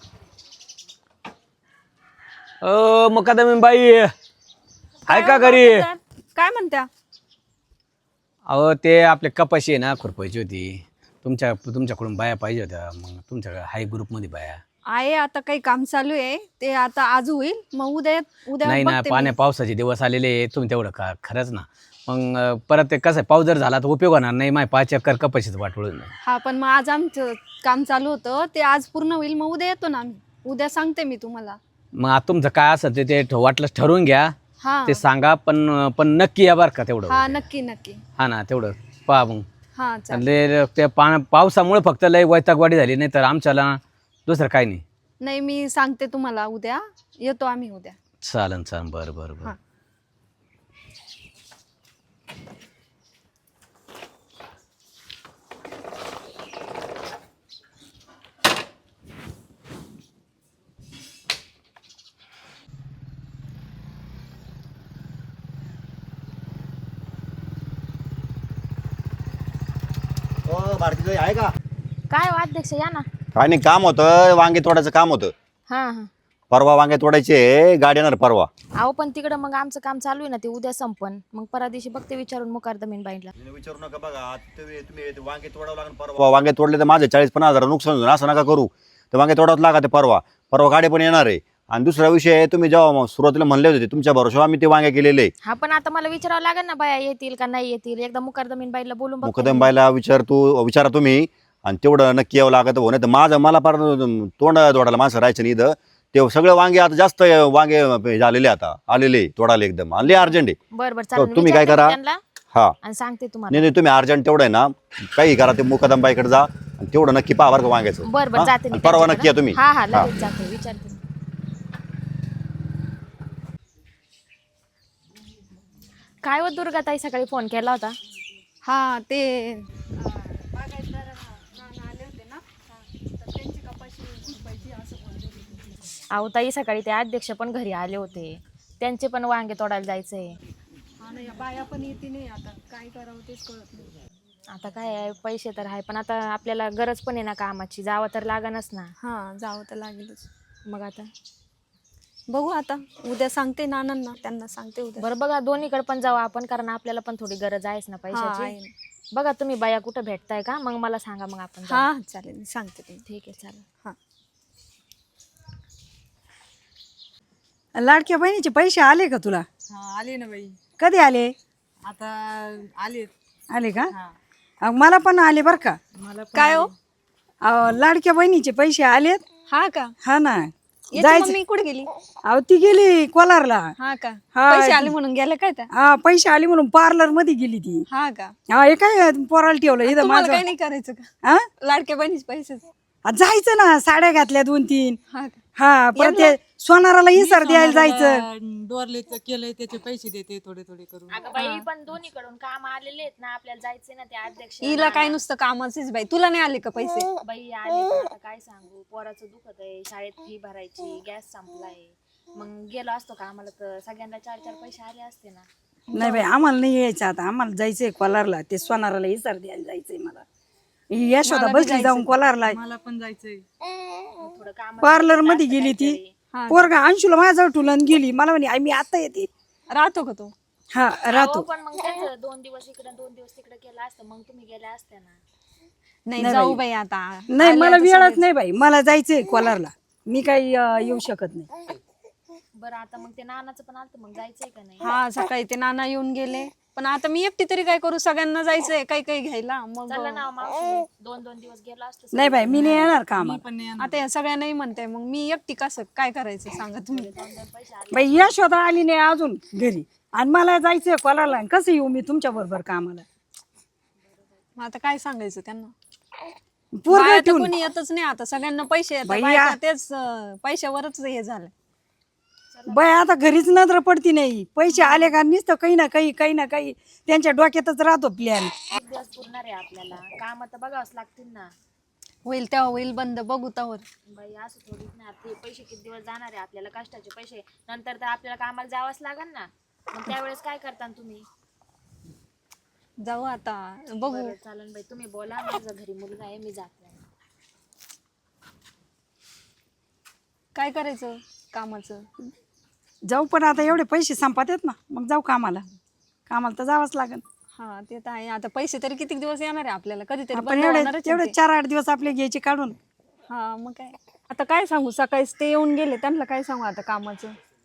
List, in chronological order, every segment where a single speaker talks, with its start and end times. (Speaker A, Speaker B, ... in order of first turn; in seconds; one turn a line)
Speaker A: 2.6-4.1
Speaker B: 5.1-6.9
Speaker A: 5.1-5.9
Speaker A: 8.5-14.6
Speaker B: 14.9-19.3
Speaker A: 18.6-26.1
Speaker B: 26.2-31.6
Speaker A: 31.9-37.4
Speaker B: 34.6-35.0
Speaker B: 37.1-38.0
Speaker A: 38.2-39.5
Speaker B: 39.7-40.2
Speaker A: 40.1-44.8
Speaker B: 45.2-48.0
Speaker A: 48.2-49.5
Speaker C: 70.5-71.5
Speaker D: 72.1-73.0
Speaker C: 73.3-75.3
Speaker D: 75.7-76.1
Speaker C: 76.5-78.5
Speaker D: 78.8-83.3
Speaker C: 83.3-95.3
Speaker D: 95.4-99.7
Speaker C: 99.2-110.6
Speaker D: 110.7-112.2
Speaker C: 111.2-112.0
Speaker D: 112.8-113.7
Speaker C: 113.5-120.1
Speaker D: 118.0-121.0
Speaker D: 126.2-128.0
Speaker B: 128.6-132.6
Speaker B: 133.2-135.6
Speaker D: 136.1-140.3
Speaker B: 141.0-143.9
Speaker D: 144.5-148.9
Speaker B: 149.0-150.3
Speaker D: 150.7-151.1
Speaker B: 152.3-155.1
Speaker D: 155.0-158.6
Speaker B: 158.1-158.7
Speaker D: 159.1-161.9
Speaker B: 161.7-163.0
Speaker D: 163.1-163.6
Speaker E: 167.8-169.4
Speaker F: 169.7-170.6
Speaker E: 170.8-171.3
Speaker F: 171.8-173.1
Speaker E: 173.5-173.9
Speaker E: 174.6-175.8
Speaker F: 175.9-176.7
Speaker B: 176.3-176.7
Speaker E: 177.4-179.2
Speaker B: 179.5-179.9
Speaker E: 180.0-181.4
Speaker B: 180.9-181.9
Speaker E: 182.2-183.7
Speaker B: 183.8-185.7
Speaker E: 184.3-184.9
Speaker E: 185.7-187.8
Speaker B: 187.9-188.3
Speaker E: 188.5-190.4
Speaker B: 189.8-191.1
Speaker B: 191.6-192.6
Speaker E: 193.1-195.0
Speaker B: 195.1-195.4
Speaker E: 195.6-198.2
Speaker B: 195.9-196.3
Speaker F: 197.1-201.4
Speaker D: 201.1-205.2
Speaker B: 201.4-201.6
Speaker B: 204.6-207.1
Speaker D: 207.2-215.4
Speaker E: 215.9-220.2
Speaker E: 220.9-222.6
Speaker B: 221.2-222.2
Speaker F: 222.4-223.4
Speaker D: 224.2-226.1
Speaker E: 224.8-226.0
Speaker B: 226.3-226.7
Speaker E: 226.5-229.3
Speaker B: 229.7-230.3
Speaker E: 230.7-231.5
Speaker D: 231.0-235.2
Speaker B: 236.1-238.3
Speaker E: 236.2-236.6
Speaker E: 237.3-241.5
Speaker D: 242.6-244.9
Speaker B: 244.8-250.2
Speaker D: 249.9-252.9
Speaker E: 252.1-253.4
Speaker F: 252.5-254.0
Speaker B: 253.8-257.1
Speaker D: 256.9-258.4
Speaker E: 257.9-263.0
Speaker D: 264.0-264.4
Speaker B: 264.6-265.7
Speaker E: 266.7-267.5
Speaker B: 266.9-271.5
Speaker E: 269.1-269.6
Speaker D: 272.5-273.5
Speaker E: 272.7-278.6
Speaker D: 278.7-281.5
Speaker B: 282.2-283.8
Speaker D: 284.1-291.2
Speaker B: 293.0-294.3
Speaker D: 294.0-297.0
Speaker B: 300.5-302.3
Speaker E: 303.1-305.6
Speaker E: 306.3-307.2
Speaker B: 307.6-311.3
Speaker E: 310.3-312.8
Speaker B: 313.3-317.3